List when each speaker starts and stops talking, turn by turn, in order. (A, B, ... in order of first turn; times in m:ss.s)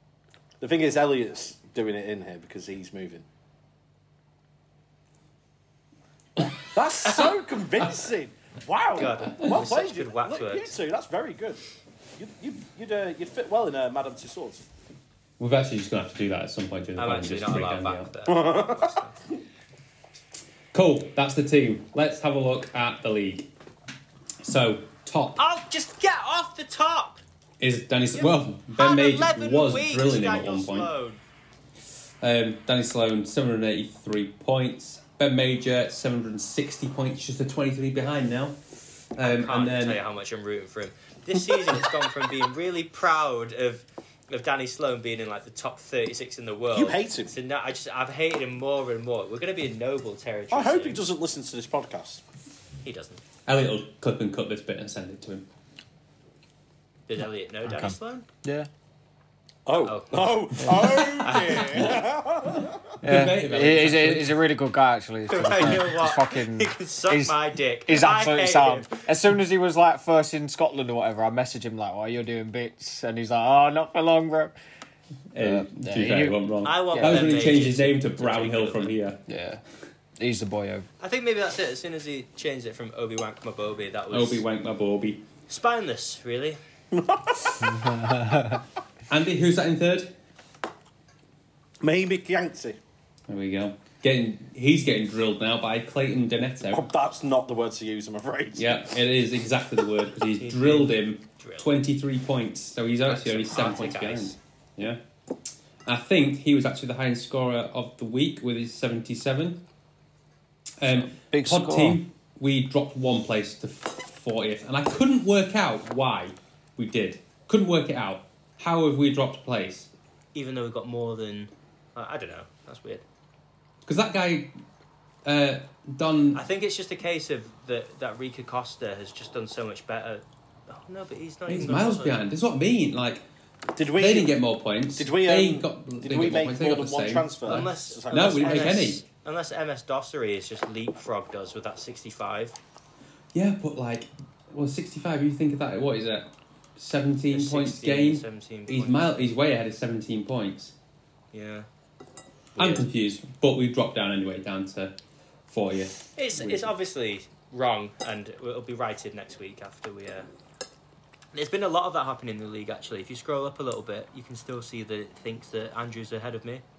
0:00.6-0:03.2 A
0:06.7-0:11.6 A
0:08.9-0:10.7 B
0:12.2-0:14.6 A
0:15.4-0:18.1 C
0:17.0-0:19.2 B
0:18.3-0:19.0 A
0:20.7-0:23.5 C
0:24.4-0:25.4 C
0:25.4-0:27.2 B
0:27.6-0:30.9 C
0:28.1-0:31.2 B
0:32.2-0:38.6 C
0:39.2-0:40.0 C
0:39.2-0:51.0 B
0:46.7-0:47.3 A
0:50.5-0:52.2 A
0:52.8-0:53.2 B
0:53.4-0:55.5 C
0:57.1-0:58.2 B
0:57.6-0:58.7 D
0:59.6-1:02.9 A
0:59.8-1:01.9 B
1:03.0-1:04.4 C
1:03.0-1:14.5 D
1:05.3-1:08.9 B
1:15.3-1:19.2 C
1:15.4-1:16.4 D
1:16.6-1:19.0 B
1:16.9-1:17.3 D
1:19.3-1:19.6 D
1:20.2-1:20.9 D
1:21.0-1:24.4 B
1:24.1-1:25.2 C
1:25.5-1:26.6 B
1:26.9-1:27.8 A
1:27.6-1:28.6 D
1:29.1-1:30.1 C
1:31.8-1:32.8 A
1:33.3-1:36.8 C
1:36.7-1:38.9 A
1:38.6-1:45.0 C
1:40.4-1:41.7 B
1:43.0-1:44.4 B
1:45.8-1:49.6 C
1:50.8-1:59.9 C
1:51.1-1:52.0 D
2:00.3-2:03.0 B
2:03.8-2:04.6 C
2:05.2-2:06.4 C
2:06.3-2:12.2 B
2:11.5-2:13.2 C
2:13.7-2:14.3 A
2:13.9-2:19.0 C
2:15.0-2:18.8 A
2:17.4-2:22.6 B
2:23.3-2:30.7 C
2:27.3-2:29.2 B
2:31.3-2:31.7 B
2:32.5-2:32.9 B
2:32.6-2:34.9 C
2:35.5-2:36.7 C
2:36.2-2:40.3 B
2:41.3-2:46.6 B